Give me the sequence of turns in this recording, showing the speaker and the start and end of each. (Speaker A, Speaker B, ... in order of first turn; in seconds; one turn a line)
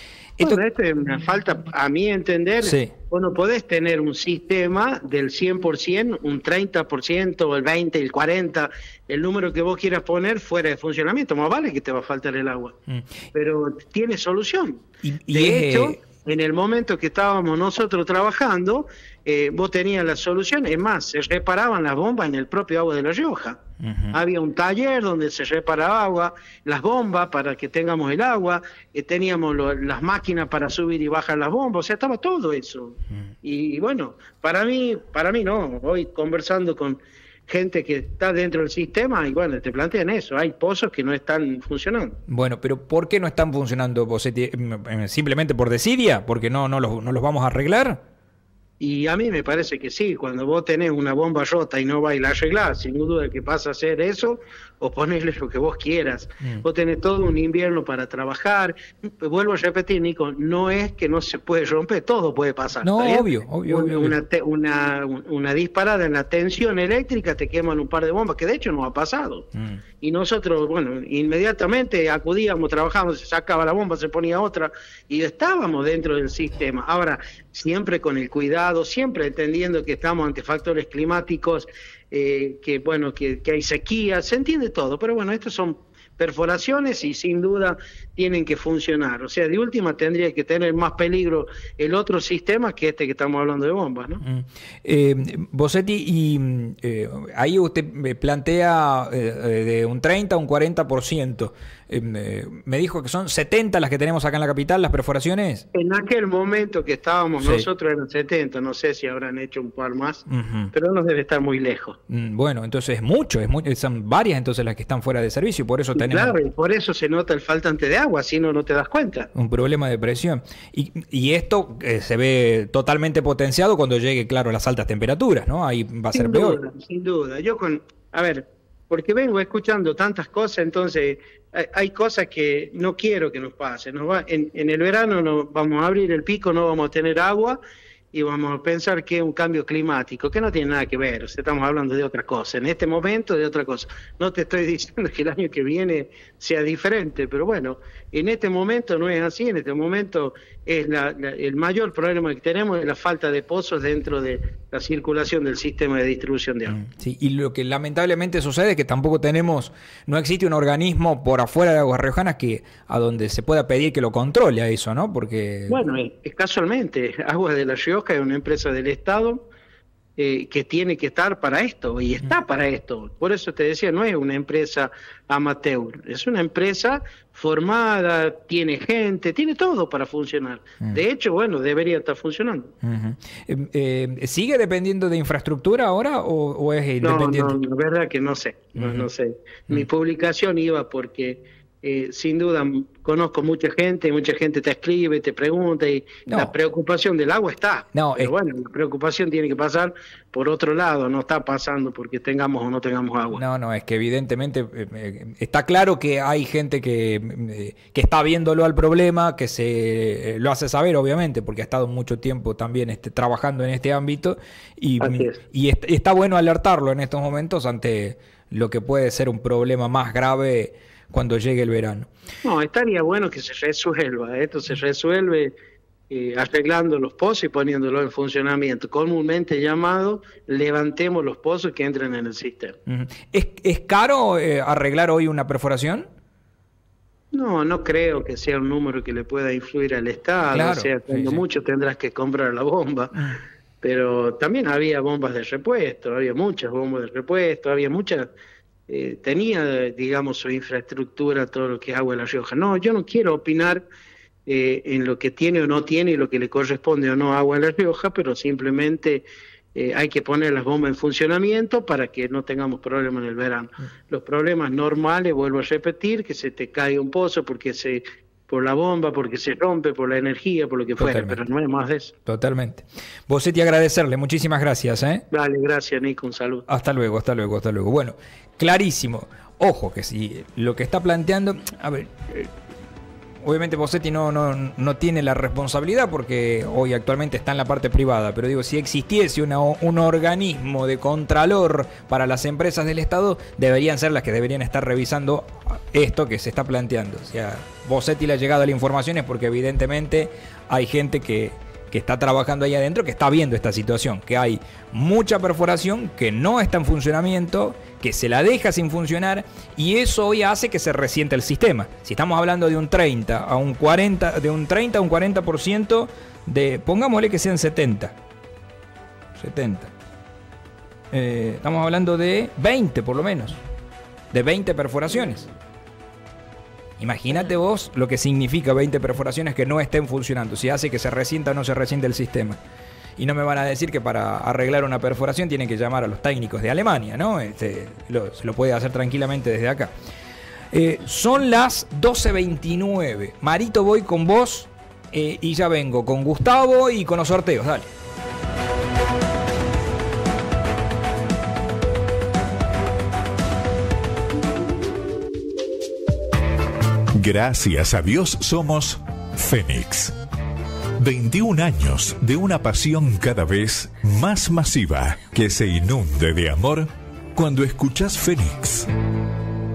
Speaker A: 0.4-12.7
Speaker B: 2.6-2.9
Speaker A: 13.3-23.6
Speaker B: 15.0-16.0
Speaker B: 23.8-24.2
Speaker A: 24.1-42.1
Speaker B: 42.3-48.0
Speaker A: 48.8-69.5
Speaker B: 62.8-64.1
Speaker B: 69.5-69.8
Speaker A: 70.0-94.2
Speaker B: 94.2-105.6
Speaker A: 105.7-112.0
Speaker B: 107.4-107.7
Speaker B: 110.3-110.7
Speaker B: 112.1-116.4
Speaker A: 116.0-119.3
Speaker B: 119.3-126.6
Speaker A: 126.1-137.6
Speaker A: 138.1-156.8
Speaker B: 156.7-165.8
Speaker A: 165.7-169.4
Speaker A: 170.2-182.7
Speaker B: 182.8-187.6
Speaker A: 187.0-203.4
Speaker B: 188.8-189.1
Speaker B: 196.3-196.5
Speaker B: 197.9-198.3
Speaker B: 203.3-222.1
Speaker A: 215.0-215.4
Speaker A: 222.4-225.5
Speaker A: 226.1-232.8
Speaker B: 232.9-236.1
Speaker A: 237.3-243.1
Speaker B: 240.5-241.4
Speaker A: 243.8-248.3
Speaker A: 248.9-253.8
Speaker A: 254.4-272.1
Speaker B: 271.0-271.4
Speaker B: 272.2-275.2
Speaker A: 275.3-276.6
Speaker B: 276.7-282.5
Speaker B: 283.4-318.1
Speaker B: 319.4-319.9
Speaker B: 321.1-323.6
Speaker B: 324.3-325.5
Speaker B: 327.0-332.6
Speaker B: 333.2-339.9
Speaker B: 340.7-347.9
Speaker C: 357.1-360.1
Speaker C: 361.0-368.9